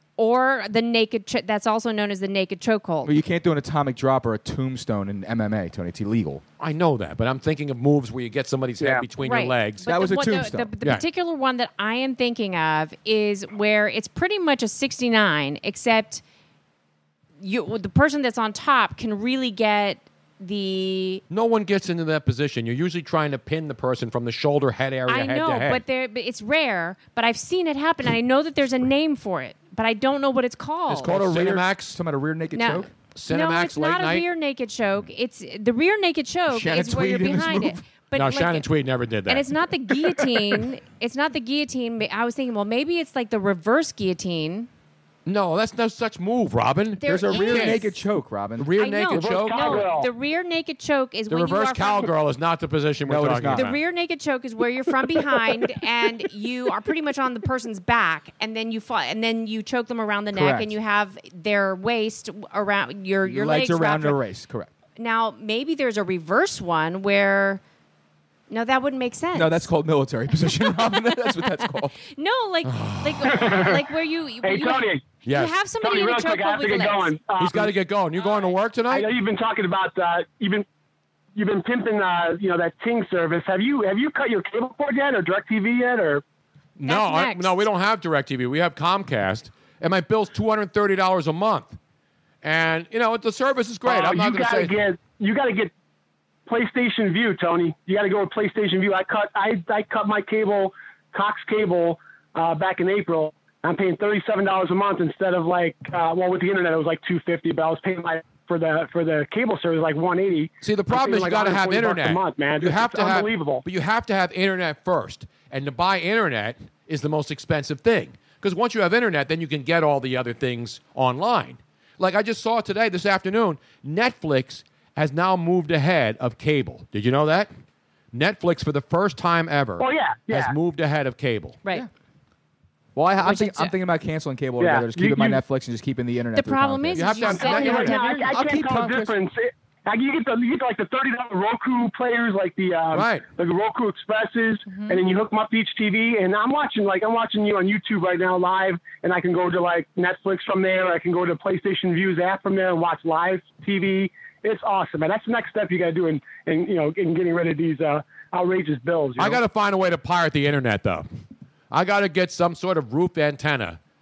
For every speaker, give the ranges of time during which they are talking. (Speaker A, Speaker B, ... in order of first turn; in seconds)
Speaker A: 0.2-3.1, 9.2-16.2, 17.4-21.2, 25.1-31.2, 32.5-38.7, 39.3-44.7, 47.0-48.0, 48.8-52.1, 53.5-64.2, 65.0-67.6, 68.5-69.7, 72.1-77.2, 86.8-87.6, 133.2-133.7, 136.3-138.4, 144.7-145.0
Speaker B: 3.0-6.4, 9.8-10.7, 31.0-32.9, 36.5-37.8, 47.0-48.7, 53.1-53.7, 60.3-60.7, 63.2-64.7, 69.3-71.9, 132.9-139.2
Speaker C: 6.6-9.9, 21.3-25.8, 30.9-32.0, 33.1-34.2, 38.1-39.5, 45.2-47.9, 48.6-49.9, 51.3-53.8, 72.6-73.5, 75.2-75.6, 77.4-79.1, 86.8-91.8, 92.4-94.8, 110.6-127.5, 128.1-131.6, 136.9-137.9, 142.9-143.2, 159.2-161.1, 161.7-163.8
Speaker D: 49.1-50.1, 73.3-73.8, 74.4-75.0, 75.8-77.7, 78.9-80.7, 81.3-86.2, 93.8-95.7, 96.5-113.6, 129.8-130.5, 134.6-135.4, 137.3-159.4